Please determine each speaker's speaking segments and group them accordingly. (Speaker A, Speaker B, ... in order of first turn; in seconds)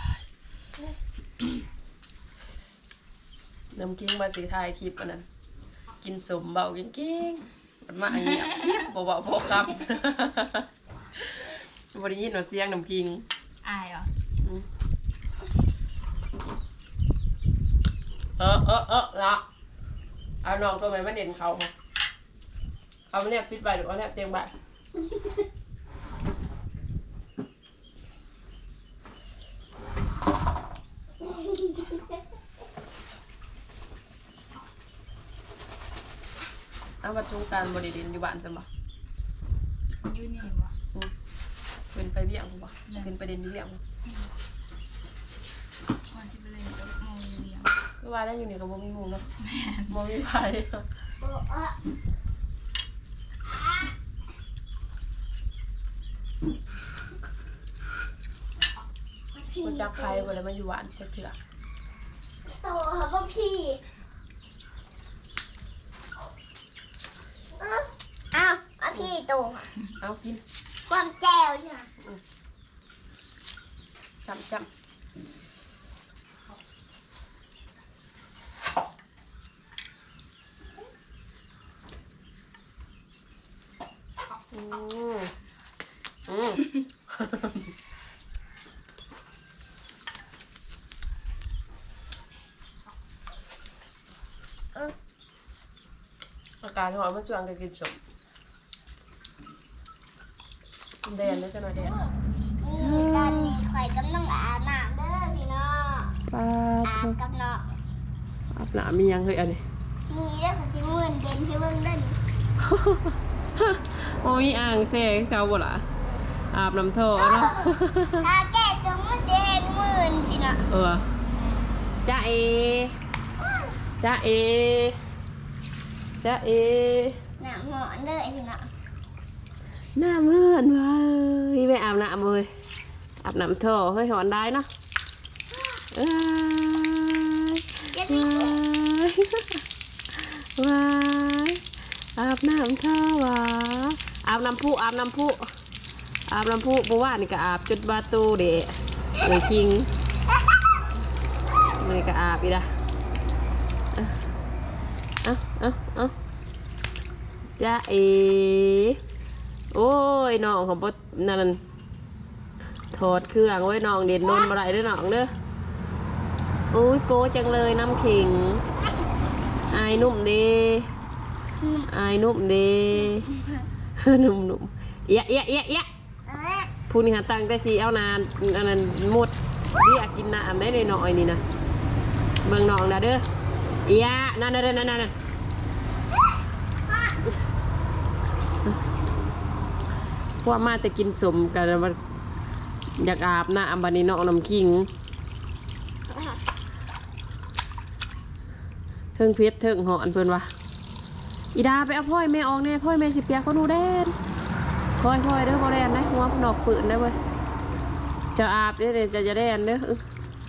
Speaker A: 3.8-5.2, 6.0-10.7, 11.2-13.2, 18.4-19.4, 20.4-21.7, 23.1-24.5, 37.0-38.6, 41.9-43.8, 48.0-49.3, 49.9-50.8, 59.6-61.4, 70.0-70.4, 74.2-74.7, 84.5-85.3, 86.2-87.7, 96.6-98.0, 101.0-102.0, 102.8-103.6, 106.3-107.2, 108.5-109.6, 112.6-115.8, 116.5-118.3, 120.7-121.0, 122.0-122.9, 124.0-125.0, 126.2-127.2, 129.9-132.5, 133.2-134.7, 135.9-139.6, 140.1-141.6, 142.2-145.4, 146.3-149.9, 151.8-152.7, 155.2-156.1, 157.6-159.0, 159.7-161.6, 162.9-165.3, 166.7-168.6, 169.7-170.9, 171.9-173.3, 174.0-175.9, 176.9-181.4, 182.4-183.2, 183.9-185.1, 190.4-192.0, 193.0-194.9, 199.2-200.5, 201.5-204.1, 205.0-207.2, 208.3-210.0
Speaker B: 8.2-8.8, 13.6-14.1, 40.0-40.8, 42.9-43.1, 46.1-47.8, 49.4-49.9
Speaker C: 51.2-51.8, 59.3-60.3, 62.5-63.8, 67.6-69.7, 70.9-71.9, 101.8-106.2, 106.8-107.7, 110.1-112.2, 117.2-120.7, 127.4-128.7, 135.5-135.8, 137.9-138.6, 164.2-164.5, 171.6-171.9, 173.1-173.5, 176.3-176.7, 186.9-187.2, 196.1-196.4